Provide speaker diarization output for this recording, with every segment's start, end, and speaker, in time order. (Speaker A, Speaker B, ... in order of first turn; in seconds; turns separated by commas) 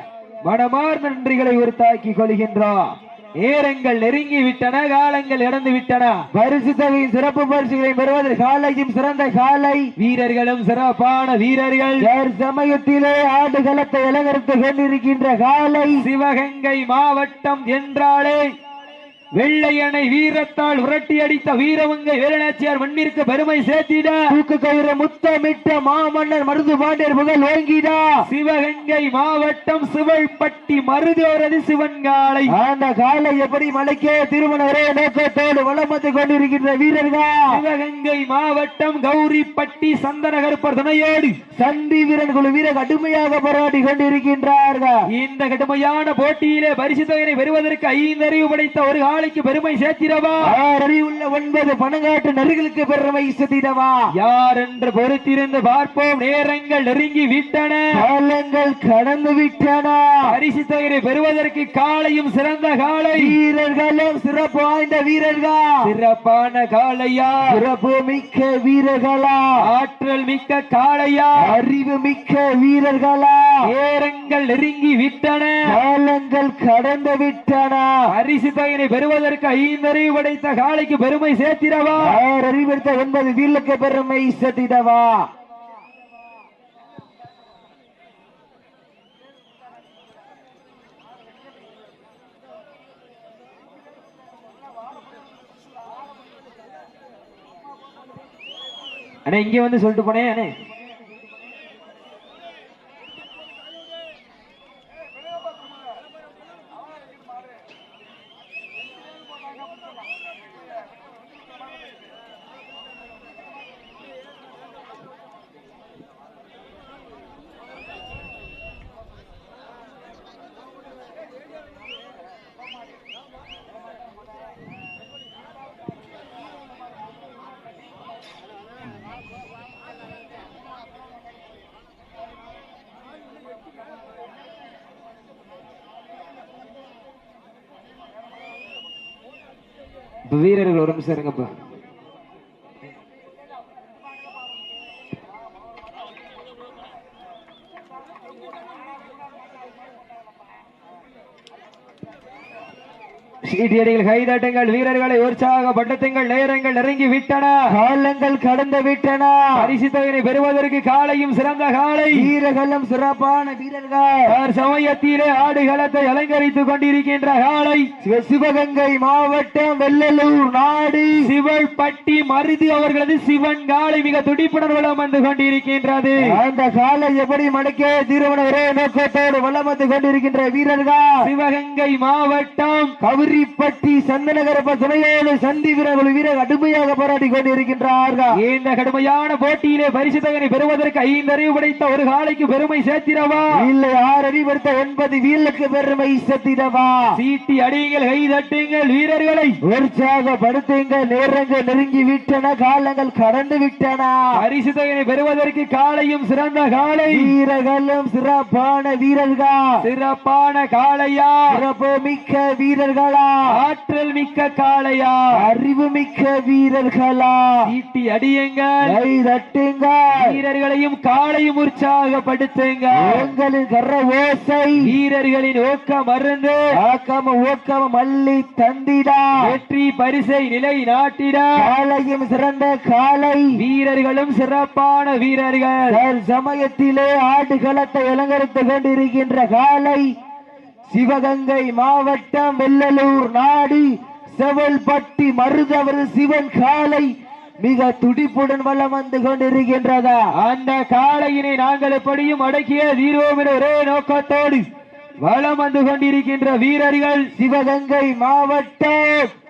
Speaker A: 0.4-6.2, Speaker B: 6.3-9.9, Speaker A: 10.0-12.1, Speaker B: 12.0-16.0, Speaker A: 16.0-18.4, Speaker A: 19.4-24.3, Speaker B: 24.3-28.1, Speaker A: 28.2-32.5, Speaker B: 32.5-37.6, Speaker A: 37.5-41.4, Speaker B: 41.5-45.1, Speaker A: 45.1-50.5, Speaker B: 50.4-54.0, Speaker A: 54.1-57.9, Speaker B: 57.9-60.3, Speaker A: 60.2-63.4, Speaker B: 63.1-65.8, Speaker A: 65.8-67.5, Speaker B: 67.4-69.5, Speaker A: 69.6-71.5, Speaker B: 71.4-73.6, Speaker A: 73.6-75.7, Speaker B: 75.7-77.9, Speaker A: 78.1-82.2, Speaker B: 82.0-85.3, Speaker A: 99.2-100.5, Speaker A: 140.3-141.5, Speaker A: 153.4-157.7, Speaker B: 157.7-159.7, Speaker A: 159.6-162.3, Speaker B: 162.1-164.3, Speaker A: 164.3-167.9, Speaker B: 168.0-171.2, Speaker A: 171.2-176.3, Speaker B: 176.2-181.2, Speaker A: 181.2-182.9, Speaker B: 183.0-188.3, Speaker A: 188.3-193.6, Speaker B: 193.5-197.2, Speaker A: 197.1-199.6, Speaker B: 199.6-204.2, Speaker A: 204.3-207.3, Speaker B: 207.1-209.8, Speaker A: 209.8-211.5, Speaker B: 211.5-213.4, Speaker A: 213.5-215.3, Speaker B: 215.3-217.6, Speaker A: 217.7-218.9, Speaker B: 218.8-220.4, Speaker A: 220.1-223.3, Speaker B: 223.0-224.8, Speaker A: 224.8-226.7, Speaker B: 226.8-229.4, Speaker A: 229.4-231.7, Speaker B: 231.6-233.6, Speaker A: 233.6-235.9, Speaker B: 235.9-240.1, Speaker B: 240.9-250.2, Speaker A: 250.3-254.6, Speaker A: 255.2-257.3, Speaker B: 257.4-259.3